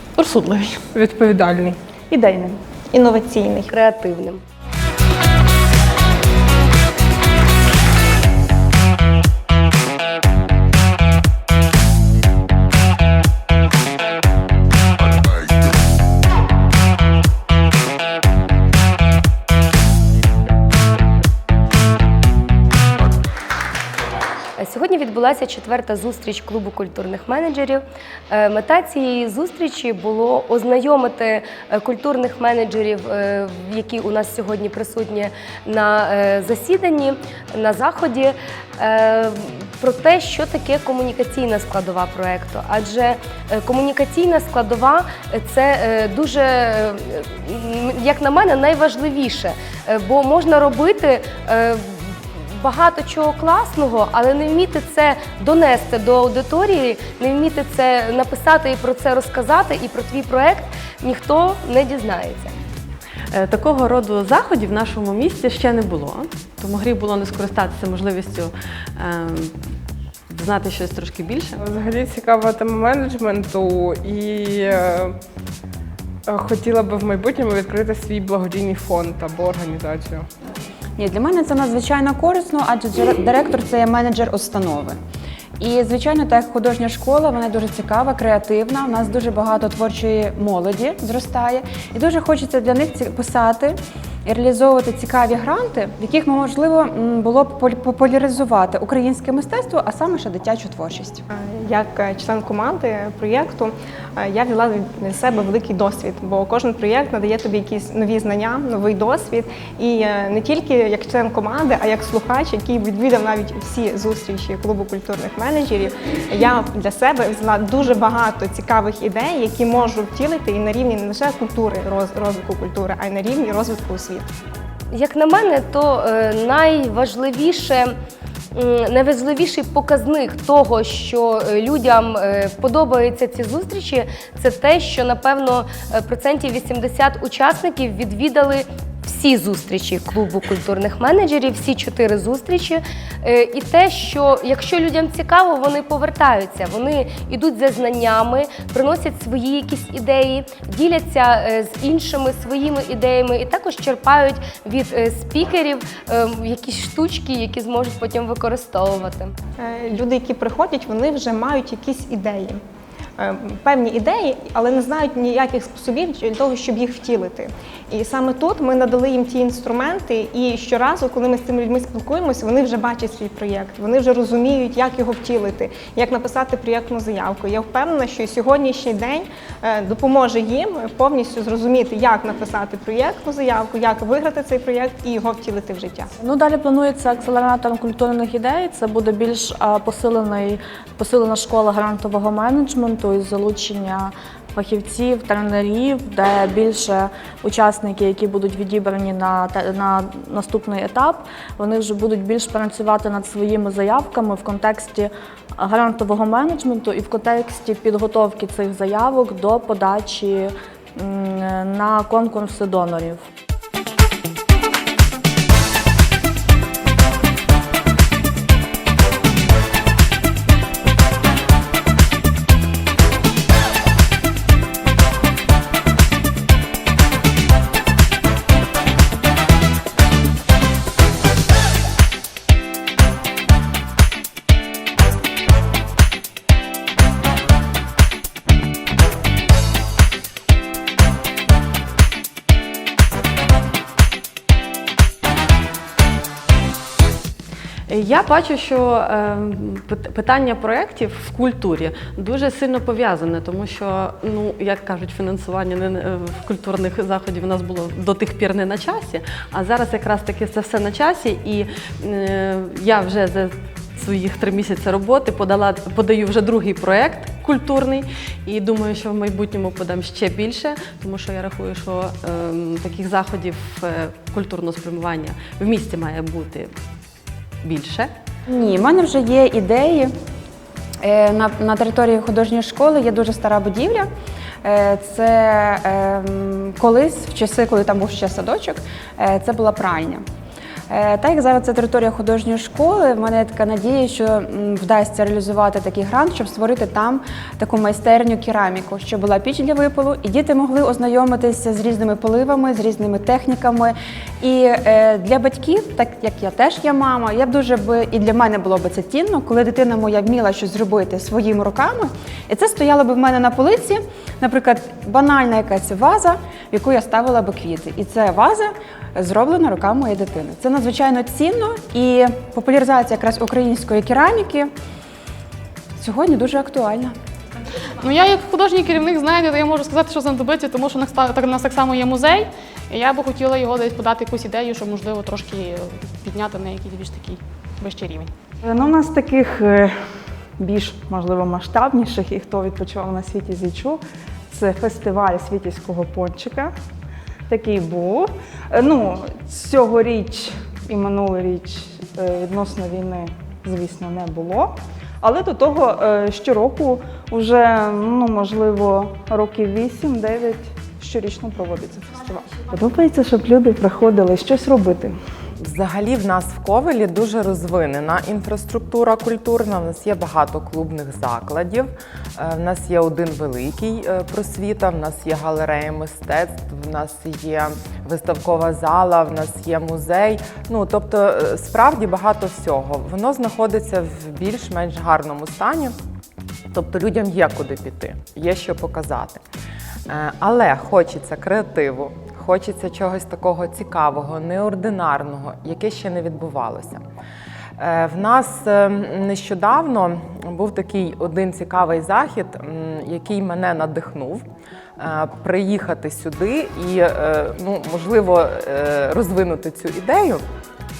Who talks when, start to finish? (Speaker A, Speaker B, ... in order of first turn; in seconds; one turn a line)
Speaker A: 0.3-0.7
Speaker B: 0.9-1.8
Speaker C: 2.1-2.6
Speaker D: 2.9-3.7
Speaker E: 3.7-4.4
Speaker E: 24.6-62.5
Speaker A: 63.3-69.6
Speaker A: 70.3-71.6
Speaker B: 71.6-75.2
Speaker B: 76.3-80.3
Speaker F: 81.0-85.0
Speaker F: 85.6-101.2
Speaker D: 101.3-124.3
Speaker E: 124.9-127.9
Speaker E: 128.6-159.3
Speaker D: 159.6-162.6
Speaker D: 163.2-186.1
Speaker G: 186.2-213.2
Speaker A: 247.9-276.7
Speaker A: 277.6-278.1
Speaker F: 278.5-280.1
Speaker F: 281.0-284.1
Speaker F: 284.6-290.2
Speaker F: 290.9-324.7
Speaker F: 326.0-327.1
Speaker H: 328.0-338.3
Speaker C: 338.6-340.0
Speaker C: 340.6-346.7
Speaker C: 347.5-365.2
Speaker I: 365.6-385.9
Speaker I: 386.7-389.4
Speaker I: 390.1-397.0
Speaker I: 397.8-404.4
Speaker I: 405.0-410.4